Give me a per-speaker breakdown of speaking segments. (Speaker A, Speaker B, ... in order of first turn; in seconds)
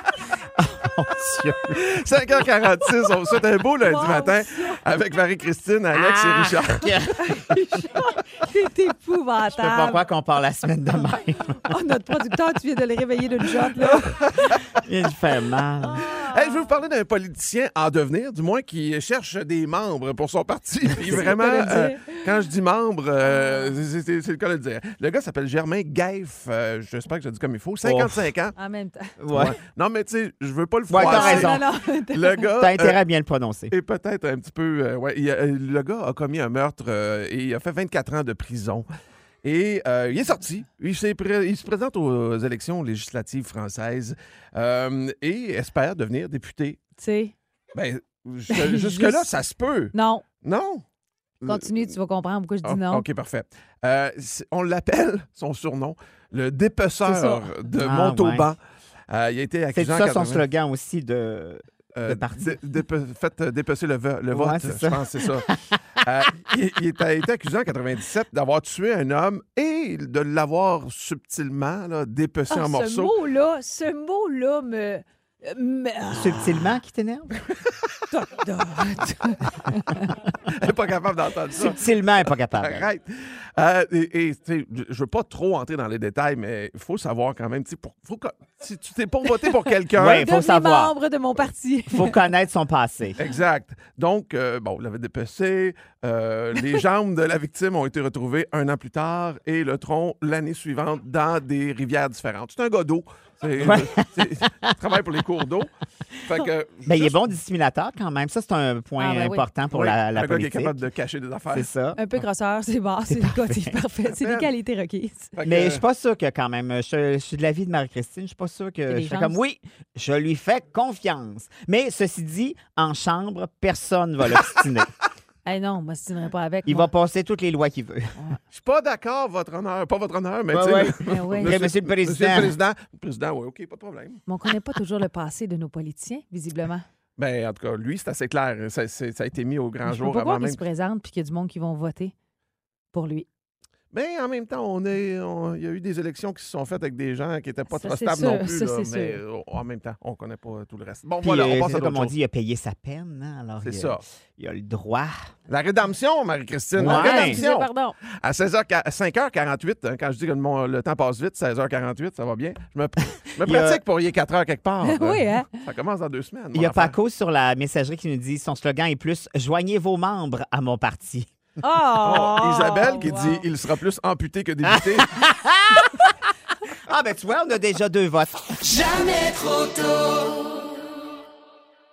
Speaker A: 0.6-2.0, 5.9-8.0, 9.5-11.7, 14.7-16.1, 27.8-28.3, 29.2-29.6, 30.9-31.6, 32.6-33.7, 57.7-58.5, 59.7-62.6, 64.3-66.0, 76.1-77.3, 81.5-82.8, 89.9-90.9, 91.9-93.2, 103.6-104.7, 106.8-110.8, 111.5-112.0, 113.1-113.8, 115.4-124.9, 126.7-128.2, 130.5-132.6, 151.2-155.1, 156.8-157.4, 163.4-163.8, 166.5-171.3, 174.7-175.9, 176.9-178.8
Speaker B: 1.7-7.1, 13.8-14.8, 16.0-28.5, 29.3-33.0, 33.7-38.9, 39.4-46.8, 47.7-50.8, 51.4-51.9, 52.6-60.5, 62.0-73.1, 80.3-81.8, 82.5-90.2, 93.2-107.3, 109.7-111.7, 114.1-114.5, 115.3-115.8, 128.5-134.2, 137.2-140.6, 143.9-152.2, 153.6-154.0, 155.5-157.7, 158.2-166.9, 172.0-175.1
Speaker C: 3.8-4.8, 7.2-10.0, 11.6-14.2, 15.9-16.2, 21.1-22.3, 23.4-23.7, 28.6-29.1, 31.0-32.5, 47.0-47.3, 48.5-49.3, 49.9-50.2, 51.4-53.0, 57.0-57.3, 72.5-76.6, 78.1-80.2, 90.1-92.2, 109.0-109.5, 112.0-115.3, 118.9-119.4, 125.4-126.9, 128.2-128.4, 131.1-131.6, 134.3-136.8, 139.8-142.1, 142.9-143.3, 147.7-149.2, 156.8-157.9, 164.8-165.6, 171.6-173.4